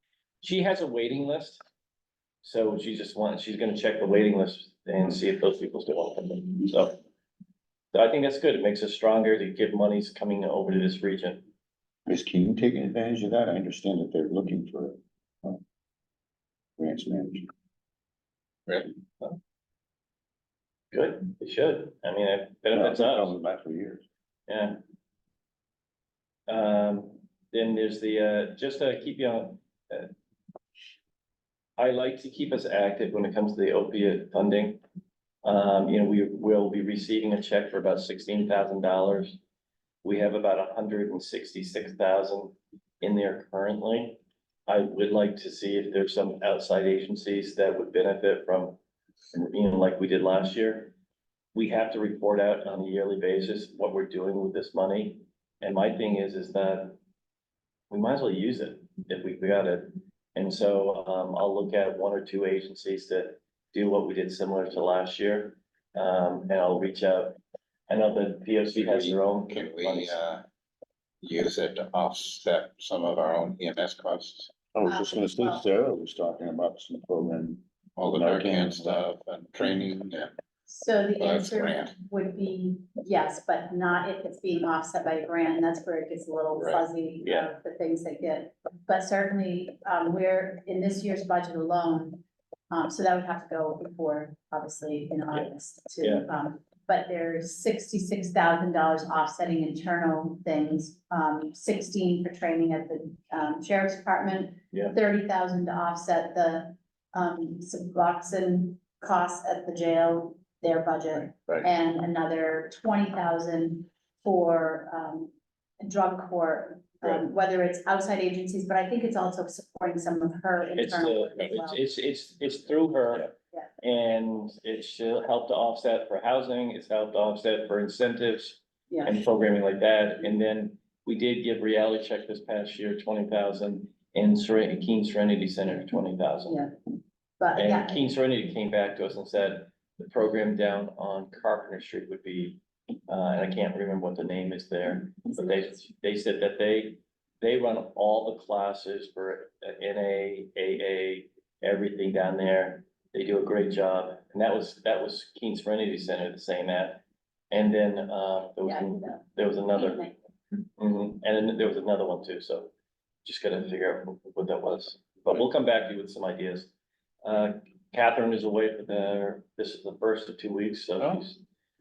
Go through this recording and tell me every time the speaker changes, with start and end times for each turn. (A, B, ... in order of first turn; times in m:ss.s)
0:00.4-0:01.6 A
0:02.4-0:07.0 A
0:07.9-0:11.4 A
0:12.1-0:15.6 B
0:16.8-0:17.5 B
0:20.9-0:23.4 A
0:22.7-0:24.0 B
0:24.5-0:24.8 A
0:26.5-0:30.1 A
0:31.8-0:34.8 A
0:35.4-0:39.4 A
0:40.0-0:48.8 A
0:49.3-0:50.9 A
0:51.5-0:57.0 A
0:57.9-1:07.4 A
1:07.9-1:10.2 A
1:08.7-1:10.4 C
1:11.2-1:14.6 C
1:14.7-1:19.0 B
1:14.8-1:15.6 D
1:18.0-1:20.3 C
1:20.7-2:01.8 D
1:21.2-1:21.9 C
1:26.5-1:26.8 C
1:27.2-1:27.5 A
1:36.0-1:36.2 A
1:51.3-1:51.7 C
2:00.8-2:16.6 A
2:17.4-2:18.0 D
2:17.5-2:40.0 A
2:38.6-2:40.1 D
2:40.8-2:42.7 A
2:43.2-2:46.7 A
2:47.2-2:51.4 A
2:51.0-2:51.2 C